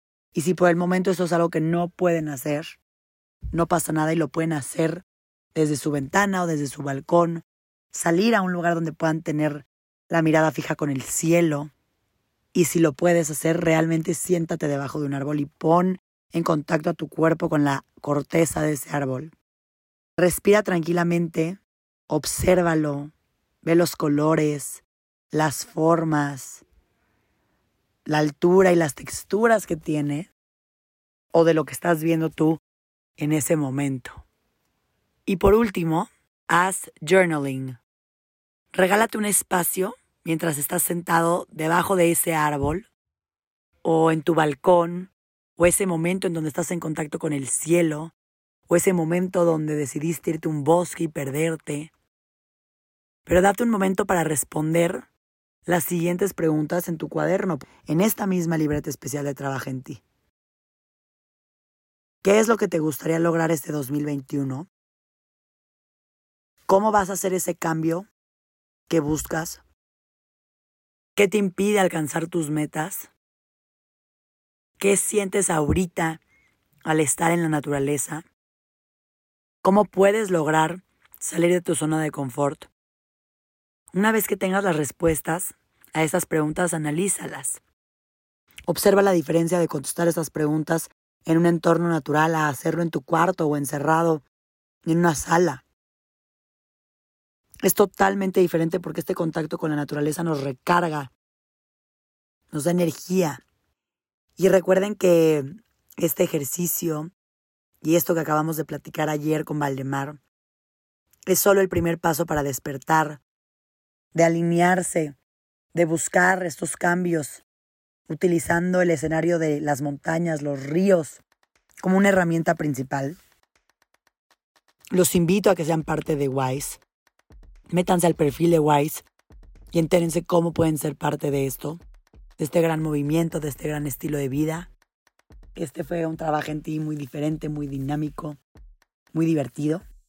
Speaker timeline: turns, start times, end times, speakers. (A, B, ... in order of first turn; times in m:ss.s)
0:00.3-0:02.8 A
0:03.5-0:05.0 A
0:05.5-0:11.7 A
0:12.5-0:19.3 A
0:20.2-0:26.6 A
0:28.0-0:30.3 A
0:31.3-0:32.6 A
0:33.2-0:34.2 A
0:35.2-0:37.8 A
0:38.7-0:42.9 A
0:43.8-0:48.1 A
0:48.7-0:51.9 A
0:53.2-0:55.1 A
0:55.6-1:00.0 A
1:02.2-1:04.7 A
1:06.7-1:08.1 A
1:08.9-1:09.6 A
1:11.2-1:13.1 A
1:14.8-1:16.2 A
1:16.8-1:18.2 A
1:19.6-1:22.7 A
1:23.9-1:27.6 A
1:28.7-1:34.2 A
1:34.8-1:35.6 A
1:37.6-1:41.1 A
1:42.5-1:43.4 A
1:44.4-1:47.1 A
1:47.8-1:50.2 A
1:51.3-1:53.2 A
1:54.1-1:55.2 A
1:55.7-1:57.4 A
1:58.1-2:01.2 A
2:01.8-2:03.2 A
2:04.9-2:06.8 A
2:07.7-2:09.0 A
2:09.7-2:11.8 A
2:12.4-2:14.7 A
2:15.5-2:18.4 A
2:19.1-2:19.8 A